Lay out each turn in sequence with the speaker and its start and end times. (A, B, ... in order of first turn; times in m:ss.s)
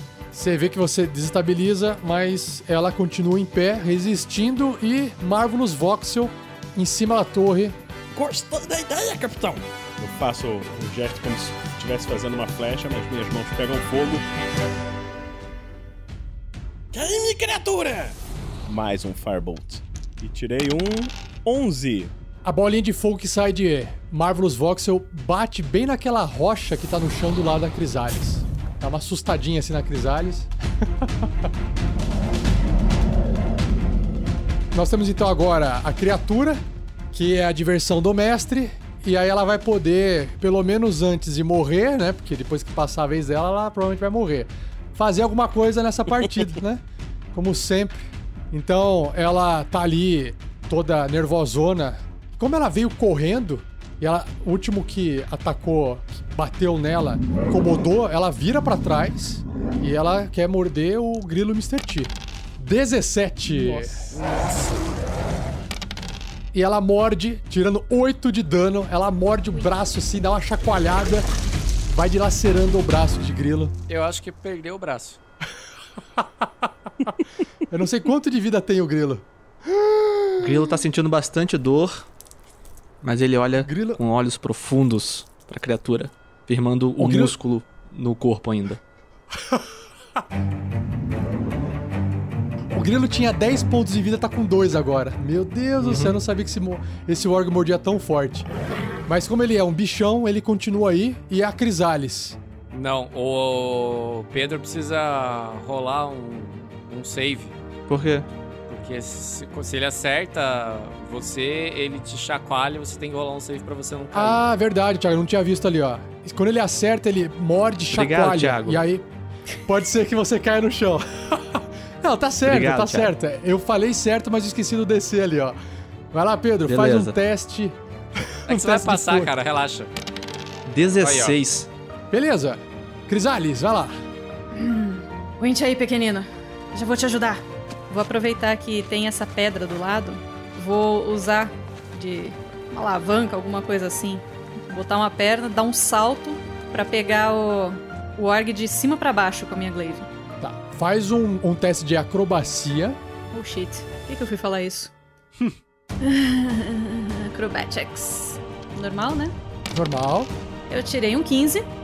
0:00.3-0:07.8 A
0:08.1-0:14.2 B
0:16.9-0:18.2 B
0:18.7-0:22.1 B
0:22.4-0:30.5 A
0:31.0-0:31.3 A
0:34.7-0:36.6 A
0:37.1-0:46.8 A
0:47.3-1:04.1 A
1:06.5-1:11.2 A
1:11.9-1:13.7 A
1:13.9-1:15.2 C
1:17.7-1:19.3 A
1:20.4-1:22.1 D
1:23.0-1:28.8 D
1:23.6-1:24.0 A
1:27.0-1:27.3 A
1:32.7-1:38.5 A
1:35.8-1:36.2 D
1:39.1-1:42.4 A
1:42.7-1:47.6 C
1:47.9-1:48.3 D
1:48.7-1:54.4 C
1:54.1-1:59.0 A
1:57.9-1:58.8 D
1:59.6-2:05.6 A
2:02.4-2:03.1 D
2:06.1-2:07.8 A
2:06.7-2:07.2 D
2:08.3-2:09.3 A
2:08.5-2:09.9 C
2:10.6-2:11.7 D
2:11.0-2:11.4 C
2:12.1-2:14.0 A
2:14.5-2:30.1 E
2:30.4-2:33.0 A
2:33.3-2:34.9 E
2:36.0-2:39.3 E
2:39.7-2:40.3 A
2:40.7-2:41.7 E